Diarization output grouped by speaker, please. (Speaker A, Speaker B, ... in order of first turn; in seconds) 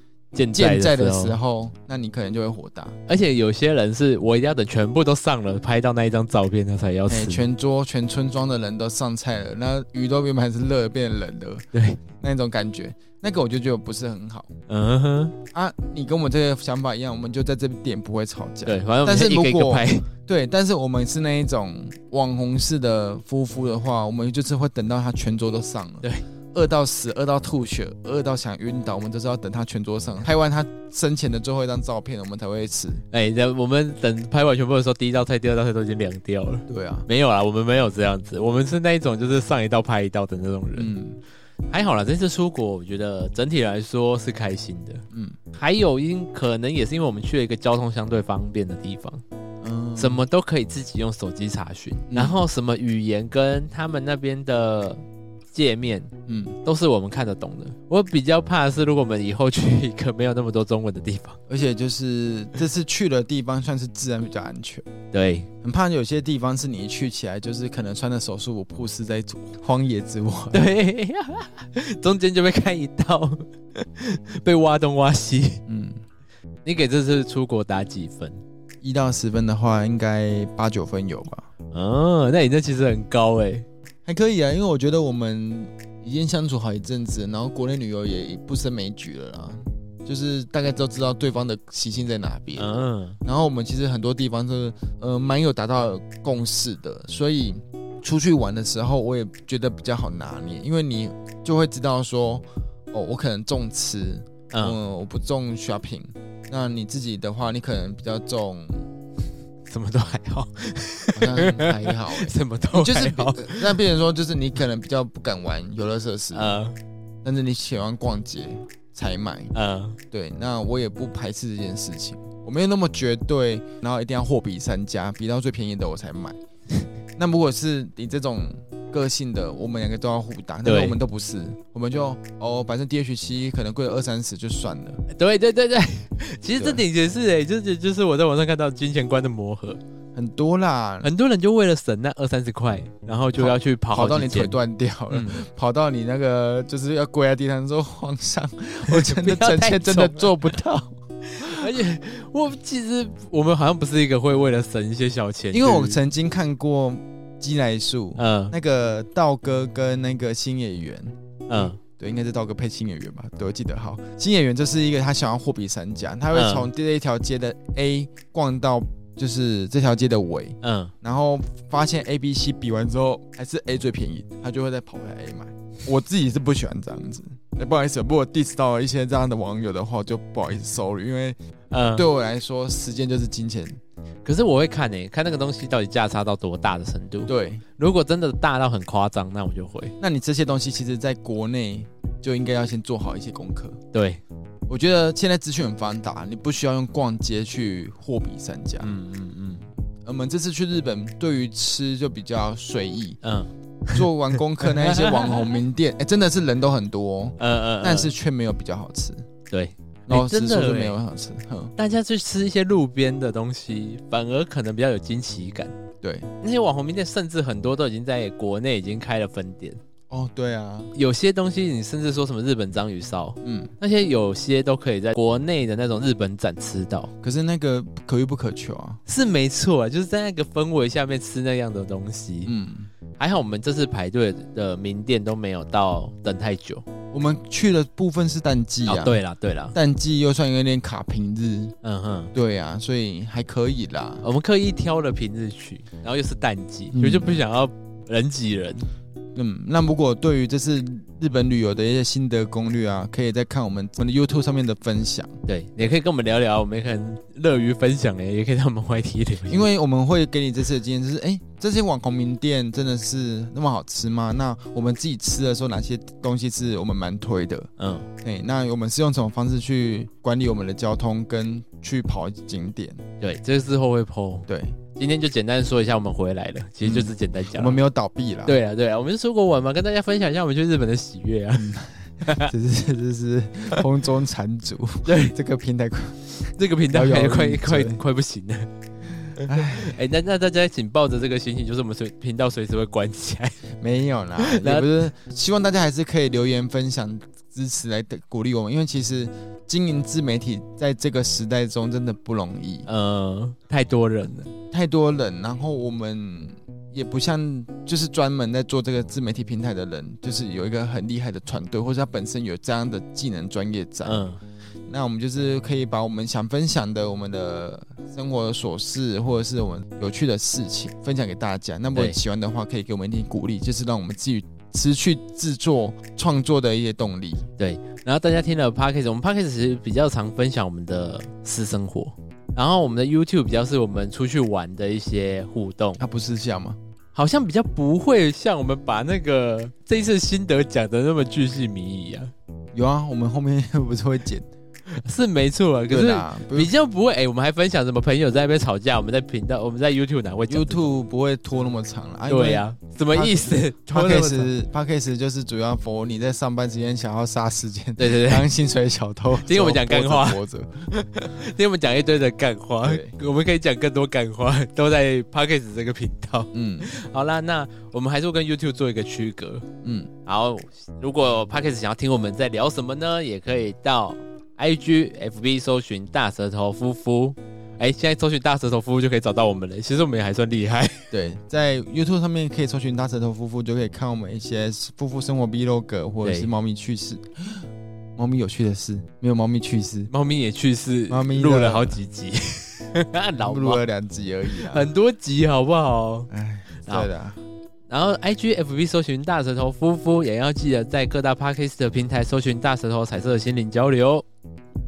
Speaker A: 0.3-1.4, 3.1-7.5, 11.7-12.0, 14.7-15.3, 18.7-20.1, 33.1-40.9, 41.7-49.2, 50.0-56.1, 56.6-61.4, 65.1-65.5, 70.5-75.6, 76.7-78.4, 81.7-83.7, 92.6-93.2, 104.5-104.8, 109.7-113.8, 116.3-116.8, 119.5-120.0, 130.7-131.0, 135.1-139.8, 141.0-144.6, 145.1-145.4, 148.9-150.5, 151.3-156.0, 158.2-158.6, 161.5-161.8, 166.3-166.7, 170.6-170.9, 181.7-182.1, 184.2-189.9, 193.9-194.2, 198.8-199.7, 203.2-204.1, 204.6-205.5, 207.4-208.1, 209.5-211.0, 211.8-215.8, 216.4-219.8, 220.9-227.1, 229.1-232.5, 233.2-236.9, 238.9-239.8, 241.8-242.3, 244.2-248.9, 255.5-259.7, 267.8-268.1, 273.2-277.8, 278.4-282.5, 285.1-285.4, 286.6-288.7, 289.4-293.6, 294.4-294.9, 302.9-304.5, 314.0-314.4, 327.6-336.0, 337.1-342.3, 344.9-350.8, 352.3-354.5, 358.0-358.5, 359.4-369.7, 370.3-381.1, 386.2-386.5, 390.1-393.8, 394.5-396.3, 397.9-404.2
Speaker B: 0.5-3.0, 7.1-14.5, 15.5-33.0, 36.7-37.1, 40.8-41.2, 49.6-50.2, 52.1-52.4, 56.3-56.6, 61.5-64.9, 65.6-70.7, 75.7-76.0, 78.8-81.5, 84.1-108.9, 111.2-116.6, 117.2-119.5, 120.1-126.4, 127.2-135.0, 136.6-136.8, 140.2-141.1, 143.4-151.8, 155.5-181.4, 181.9-183.8, 187.3-187.6, 190.0-193.8, 194.7-198.9, 200.1-203.2, 203.9-209.3, 210.1-211.7, 216.0-216.3, 220.1-220.9, 223.4-223.7, 227.2-229.0, 232.5-232.9, 237.1-239.2, 239.7-241.7, 242.3-244.2, 246.9-247.4, 249.3-255.4, 259.5-267.7, 268.2-273.0, 274.5-274.8, 276.8-278.6, 281.6-288.0, 289.4-290.0, 293.8-302.9, 304.7-314.2, 314.9-327.5, 336.0-336.8, 342.7-344.5, 345.9-346.7, 350.5-360.9, 362.8-363.1, 366.5-366.9, 369.8-370.1, 381.1-387.6, 388.2-390.1, 391.1-392.0, 393.4-394.9, 396.3-397.4